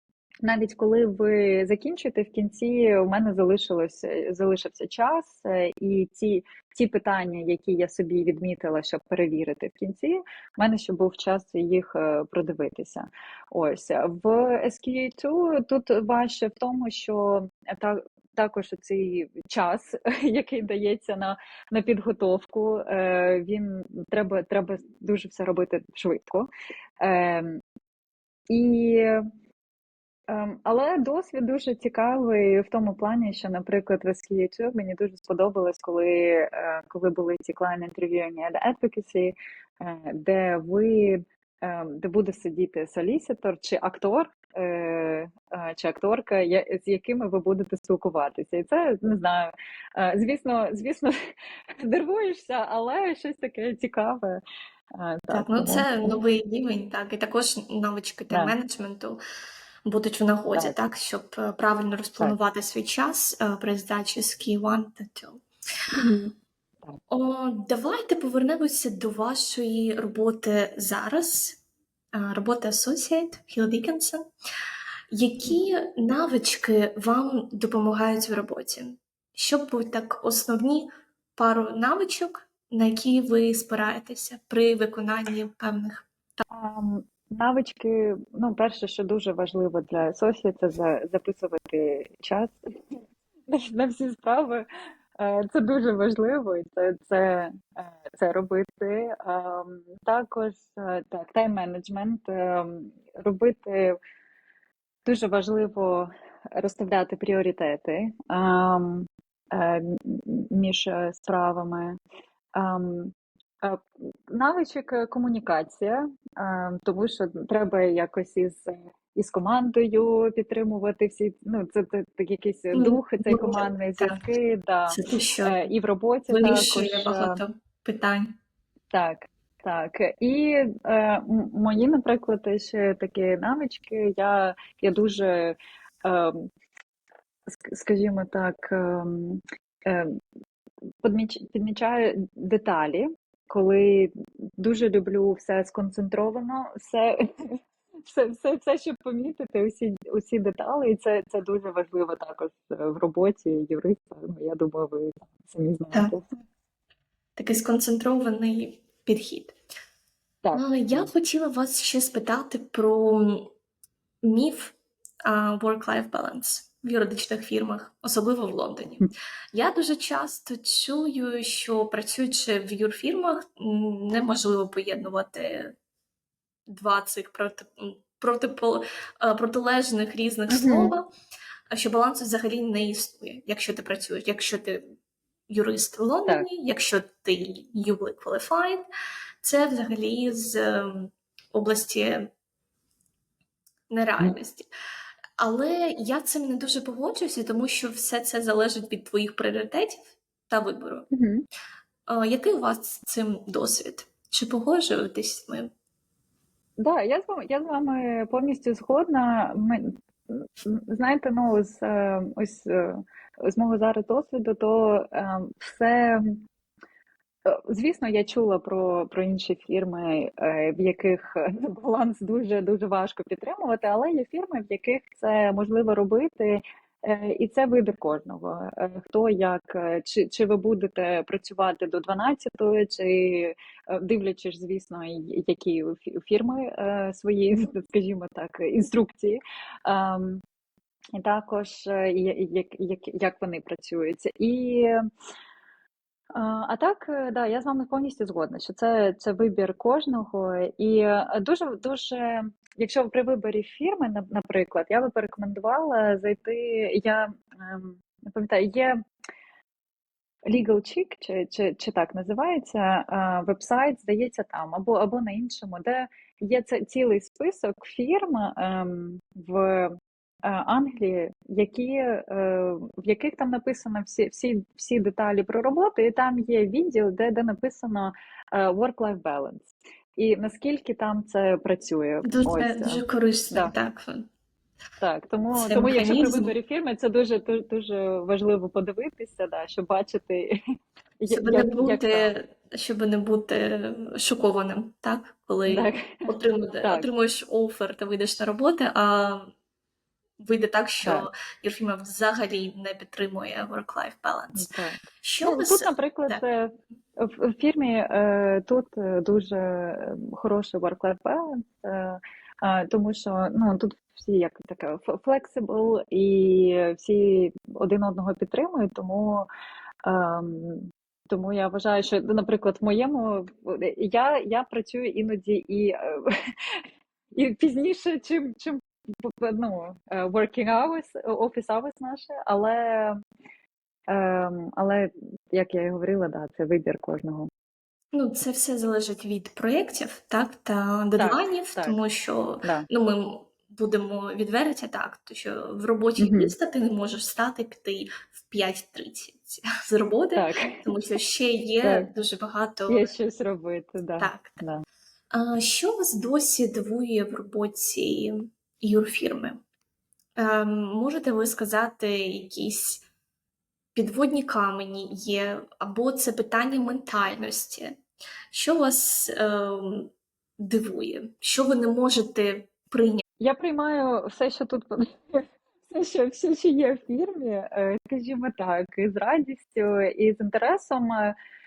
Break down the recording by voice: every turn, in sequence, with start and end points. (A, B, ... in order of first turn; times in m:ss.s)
0:00.4-0:26.5 A
0:27.0-0:27.6 A
0:28.5-0:29.2 A
0:30.3-0:51.1 A
0:51.8-0:54.4 A
0:55.0-0:56.2 A
0:55.3-0:59.2 B
0:58.3-0:58.6 A
0:59.9-1:05.4 B
1:05.9-1:07.0 A
1:07.1-1:11.6 B
1:12.1-1:14.2 B
1:15.1-1:26.4 B
1:26.5-1:32.6 A
1:33.5-1:34.7 A
1:35.2-1:44.0 A
1:45.0-1:52.0 A
1:52.6-2:07.4 A
2:02.7-2:04.2 B
2:04.9-2:05.6 B
2:06.3-2:08.4 B
2:08.9-2:16.5 A
2:17.5-2:20.2 A
2:21.0-2:36.2 A
2:37.4-2:39.6 B
2:40.4-2:41.1 A
2:40.6-2:43.5 B
2:44.2-2:55.8 B
2:56.7-3:01.1 B
3:00.5-3:00.9 A
3:01.7-3:04.9 B
3:05.5-3:08.9 B
3:09.4-3:12.3 B
3:13.9-3:14.7 B
3:15.4-3:21.1 B
3:21.1-3:21.4 A
3:22.1-3:25.7 B
3:26.8-3:36.4 A
3:37.4-4:00.4 A
4:01.1-4:04.9 A
4:06.3-4:19.0 A
4:20.5-4:43.7 A
4:42.2-4:44.3 B
4:45.0-4:50.6 A
4:45.5-4:46.5 B
4:51.2-4:52.3 A
4:51.3-4:59.5 B
4:55.7-4:56.2 A
4:56.8-4:57.1 A
5:00.4-5:06.4 B
5:01.0-5:01.3 A
5:04.6-5:19.5 A
5:20.1-5:26.8 A
5:27.3-5:33.2 A
5:34.1-5:37.5 A
5:38.1-5:53.1 B
5:41.2-5:42.0 A
5:46.2-5:46.5 A
5:50.4-5:50.9 A
5:51.8-5:52.1 A
5:52.9-5:54.8 A
5:54.2-5:54.6 B
5:55.3-5:59.6 B
6:00.4-6:03.0 B
6:03.9-6:08.0 B
6:08.5-6:13.2 B
6:13.4-6:21.4 A